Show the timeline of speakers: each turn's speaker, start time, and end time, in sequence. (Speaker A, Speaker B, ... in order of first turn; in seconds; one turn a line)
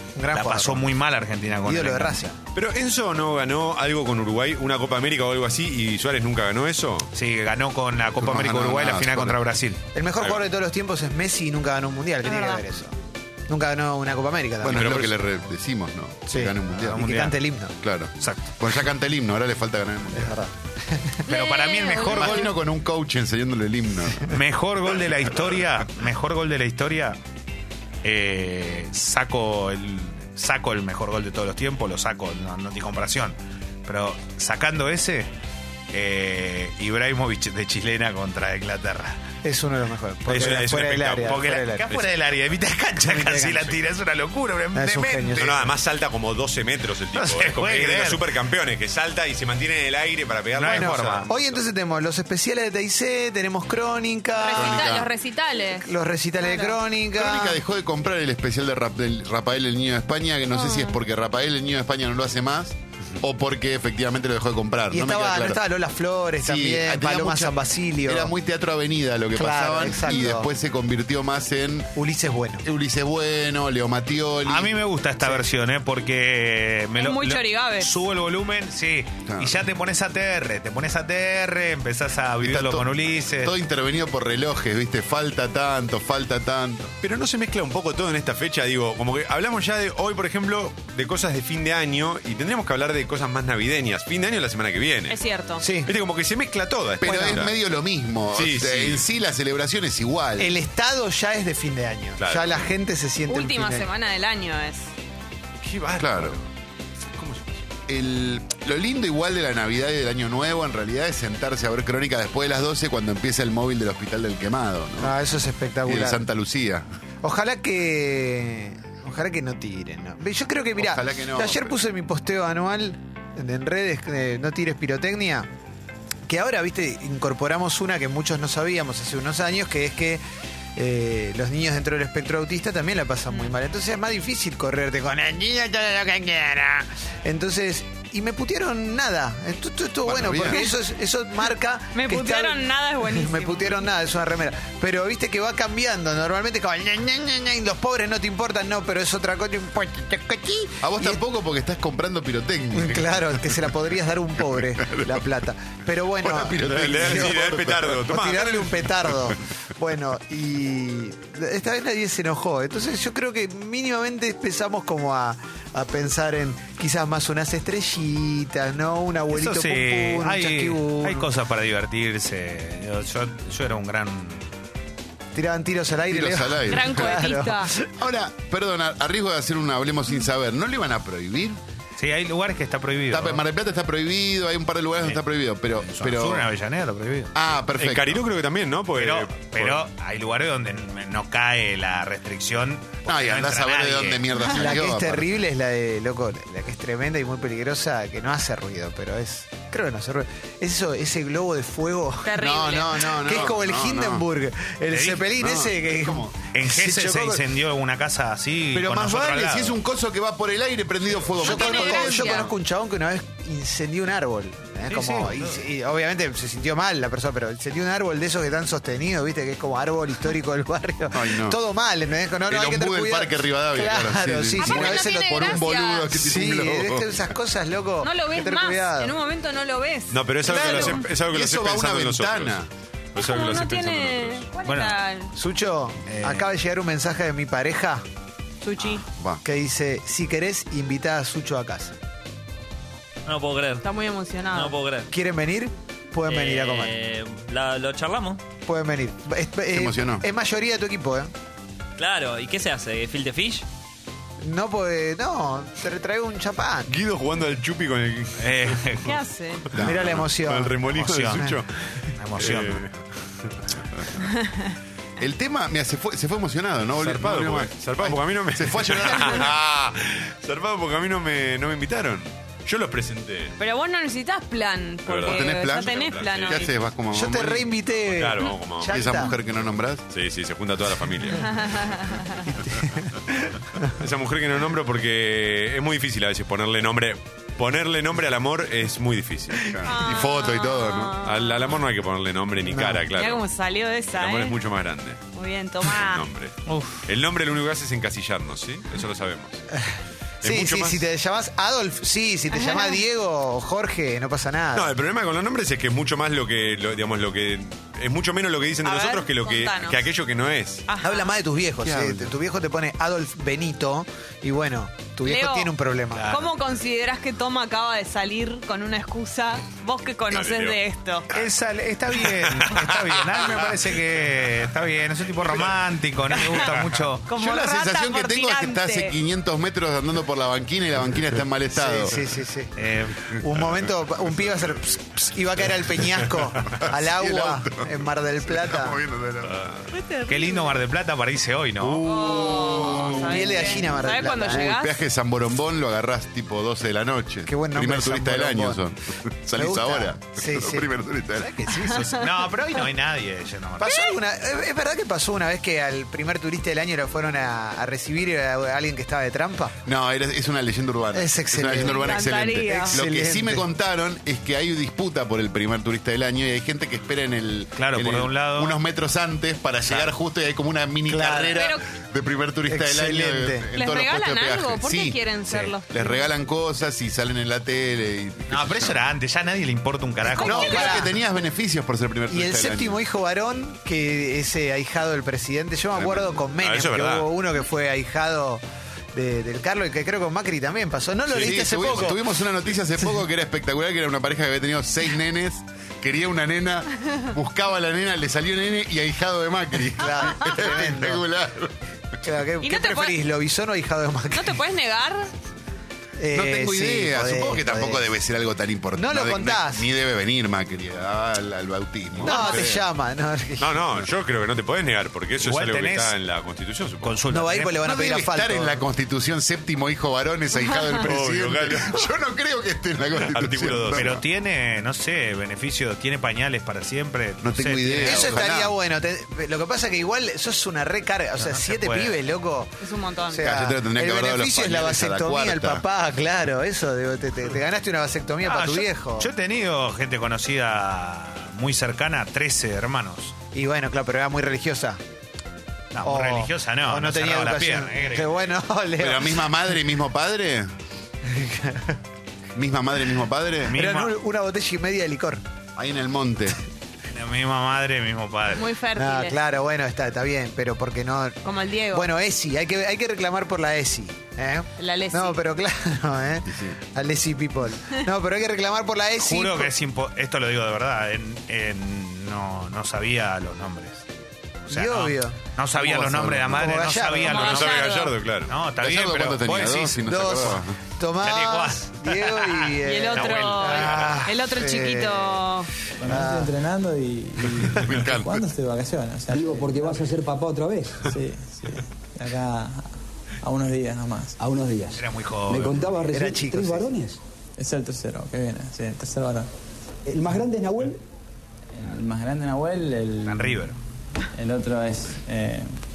Speaker A: 0.2-0.9
Speaker B: 0.3-2.2
Speaker A: 1.6-2.4
Speaker C: 2.5-7.1
Speaker B: 7.1-9.8
Speaker D: 8.2-9.4
Speaker A: 9.9-13.0
Speaker E: 12.2-12.6
Speaker A: 13.5-15.1
Speaker D: 14.6-17.1
Speaker C: 14.7-15.1
Speaker A: 16.3-17.8
Speaker B: 16.7-17.4
Speaker D: 17.8-20.4
Speaker B: 18.2-18.6
Speaker A: 20.1-21.2
Speaker B: 21.3-22.5
Speaker E: 21.3-22.6
Speaker D: 22.1-24.4
Speaker B: 24.3-27.2
Speaker B: 28.0-35.3
Speaker B: 35.9-39.2
Speaker A: 39.4-41.9
Speaker C: 40.3-42.1
Speaker B: 40.3-40.6
Speaker B: 41.2-45.6
Speaker A: 43.0-43.8
Speaker A: 44.8-45.7
Speaker C: 45.4-51.6
Speaker B: 47.1-48.2
Speaker B: 50.5-51.3
Speaker A: 50.6-55.1
Speaker E: 54.4-56.8
Speaker D: 54.5-55.1
Speaker A: 55.7-57.6
Speaker D: 57.1-65.6
Speaker E: 60.5-61.0
Speaker A: 64.9-68.3
Speaker D: 66.4-71.9
Speaker A: 69.4-70.5
Speaker A: 72.0-72.6
Speaker D: 72.6-74.8
Speaker B: 74.5-83.5
Speaker E: 77.0-77.9
Speaker D: 79.3-79.5
Speaker D: 82.4-86.9
Speaker C: 87.0-95.2
Speaker E: 95.1-95.7
Speaker A: 95.6-95.9
Speaker C: 95.8-97.5
Speaker D: 97.0-100.5
Speaker A: 97.0-97.4
Speaker C: 98.3-99.1
Speaker A: 100.4-103.9
Speaker C: 102.2-102.7
Speaker E: 103.3-104.9
Speaker C: 105.6-106.5
Speaker D: 106.0-106.4
Speaker C: 107.1-107.6
Speaker D: 107.9-115.2
Speaker A: 115.0-116.2
Speaker D: 115.8-116.8
Speaker A: 117.2-125.5
Speaker D: 120.8-121.8
Speaker A: 126.3-130.2
Speaker A: 130.8-151.2
Speaker D: 140.0-140.7
Speaker E: 141.9-143.9
Speaker D: 150.8-153.8
Speaker A: 152.7-157.4
Speaker D: 154.6-155.2
Speaker D: 156.2-158.0
Speaker C: 156.7-158.9
Speaker A: 158.1-171.3
Speaker B: 169.3-174.5
Speaker A: 175.3-177.9
Speaker D: 176.1-177.1
Speaker E: 176.7-177.8
Speaker D: 178.0-181.6
Speaker B: 182.0-183.4
Speaker D: 183.1-186.5
Speaker B: 185.7-187.3
Speaker D: 187.3-188.2
Speaker C: 187.8-189.8
Speaker B: 189.0-194.2
Speaker D: 193.1-195.4
Speaker A: 194.5-202.5
Speaker E: 202.2-203.1
Speaker D: 202.4-204.3
Speaker A: 203.0-207.4
Speaker B: 204.9-205.2
Speaker D: 205.3-206.4
Speaker B: 206.5-209.8
Speaker D: 208.7-212.5
Speaker A: 211.4-225.6
Speaker E: 211.4-212.5
Speaker B: 214.9-215.6
Speaker D: 221.1-221.6
Speaker D: 222.5-227.3
Speaker E: 224.6-226.2
Speaker A: 226.2-229.1
Speaker E: 228.0-230.9
Speaker C: 230.1-232.6
Speaker A: 230.4-231.0
Speaker D: 231.2-232.7
Speaker C: 233.1-234.5
Speaker E: 233.2-235.3
Speaker B: 234.7-235.0
Speaker A: 235.4-238.0
Speaker B: 236.1-236.5
Speaker E: 238.6-239.1
Speaker D: 239.1-239.4
Speaker A: 239.4-241.9
Speaker F: 243.3-243.9
Speaker E: 243.8-244.8
Speaker F: 244.5-245.1
Speaker A: 245.1-246.9
Speaker F: 246.2-248.4
Speaker A: 248.7-251.3
Speaker D: 249.7-250.2
Speaker F: 252.0-253.7
Speaker A: 254.4-256.9
Speaker C: 256.9-259.0
Speaker B: 258.4-259.1
Speaker E: 259.0-259.7
Speaker D: 259.7-260.2
Speaker A: 259.8-260.9
Speaker C: 259.8-261.7
Speaker B: 260.9-261.6
Speaker B: 262.2-262.9
Speaker C: 262.4-264.1
Speaker E: 264.4-264.7
Speaker D: 265.2-269.6
Speaker C: 266.9-273.6
Speaker E: 273.6-276.7
Speaker C: 275.1-276.7
Speaker D: 275.2-277.7
Speaker A: 277.1-279.3
Speaker C: 278.1-279.2
Speaker D: 278.9-280.1
Speaker C: 280.1-282.0
Speaker E: 281.6-282.5
Speaker C: 283.9-289.8
Speaker D: 289.6-291.2
Speaker E: 289.8-291.8
Speaker C: 291.2-293.4
Speaker A: 292.6-293.1
Speaker E: 293.1-294.6
Speaker C: 294.1-295.2
Speaker E: 295.3-296.3
Speaker C: 295.8-296.6
Speaker B: 296.7-297.1
Speaker C: 297.1-299.6
Speaker A: 299.7-304.9
Speaker C: 300.4-301.1
Speaker E: 302.5-303.0
Speaker C: 304.7-310.9
Speaker E: 308.8-310.0
Speaker E: 310.9-311.3
Speaker A: 311.0-316.3
Speaker C: 311.8-312.3
Speaker E: 315.2-315.7
Speaker B: 316.1-316.5
Speaker E: 316.3-321.3
Speaker C: 320.3-320.8
Speaker B: 321.3-327.3
Speaker C: 322.1-323.8
Speaker E: 326.3-326.7
Speaker E: 327.2-329.2
Speaker D: 327.4-332.3
Speaker A: 331.7-332.7
Speaker B: 332.8-333.4
Speaker A: 333.3-339.0
Speaker D: 336.7-339.7
Speaker E: 339.9-340.8
Speaker B: 340.3-342.1
Speaker D: 341.8-343.6
Speaker E: 342.0-345.0
Speaker A: 343.2-344.7
Speaker D: 344.4-351.7
Speaker A: 347.5-348.8
Speaker A: 349.6-352.3
Speaker E: 351.8-352.2
Speaker B: 351.9-353.9
Speaker A: 353.8-359.8
Speaker E: 353.9-354.2
Speaker D: 359.9-375.2
Speaker A: 361.1-363.7
Speaker E: 361.8-363.0
Speaker B: 367.8-368.8
Speaker B: 369.9-370.1
Speaker A: 371.1-371.6
Speaker E: 371.5-371.8
Speaker A: 372.7-373.7
Speaker E: 373.7-376.3
Speaker B: 375.5-375.8
Speaker D: 375.9-379.0
Speaker B: 378.5-380.9
Speaker E: 380.3-381.1
Speaker A: 380.3-381.1
Speaker D: 380.4-383.0
Speaker A: 382.3-388.6
Speaker D: 385.9-386.4
Speaker C: 386.5-387.3
Speaker A: 389.1-392.3
Speaker D: 391.3-401.8
Speaker A: 400.0-401.2
Speaker A: 402.2-404.6
Speaker E: 402.6-403.2
Speaker E: 404.4-405.3
Speaker A: 406.2-408.1
Speaker D: 406.3-412.8
Speaker A: 409.0-409.9
Speaker A: 412.2-413.8
Speaker E: 412.2-412.6
Speaker C: 413.6-417.2
Speaker B: 415.4-416.1
Speaker B: 417.0-417.8
Speaker A: 417.3-418.8
Speaker D: 417.8-424.1
Speaker E: 420.6-421.0
Speaker C: 421.0-421.9
Speaker C: 423.2-424.2
Speaker B: 423.9-428.4
Speaker D: 427.4-428.8
Speaker A: 428.0-432.8
Speaker B: 431.4-432.1
Speaker E: 432.8-433.4
Speaker A: 433.3-439.3
Speaker D: 433.4-435.8
Speaker B: 438.4-443.4
Speaker A: 443.5-445.0
Speaker B: 445.9-448.3
Speaker A: 446.0-449.5
Speaker D: 449.0-450.7
Speaker A: 451.3-452.0
Speaker D: 452.6-453.8
Speaker B: 453.7-454.1
Speaker A: 453.7-455.4
Speaker D: 455.8-456.6
Speaker B: 457.1-458.7
Speaker E: 458.5-459.4
Speaker A: 458.9-461.4
Speaker E: 461.4-462.1
Speaker A: 461.9-469.7
Speaker E: 464.8-465.4
Speaker D: 466.5-466.8
Speaker B: 469.2-474.0
Speaker B: 474.6-477.9
Speaker A: 474.7-475.4
Speaker D: 475.8-476.4
Speaker A: 476.4-477.5
Speaker E: 477.3-478.2
Speaker C: 477.3-478.5
Speaker B: 478.5-480.1
Speaker D: 478.8-480.8
Speaker A: 480.1-485.4
Speaker B: 481.2-484.3
Speaker E: 482.8-485.7
Speaker G: 486.0-490.1
Speaker A: 486.0-486.6
Speaker D: 487.7-488.4
Speaker H: 489.3-491.1
Speaker G: 491.0-492.9
Speaker G: 493.4-494.4
Speaker H: 494.4-497.2
Speaker B: 495.0-495.8
Speaker A: 496.1-496.9
Speaker G: 497.6-499.5
Speaker H: 500.1-501.0
Speaker G: 501.7-503.7
Speaker B: 503.3-503.8
Speaker G: 504.4-505.7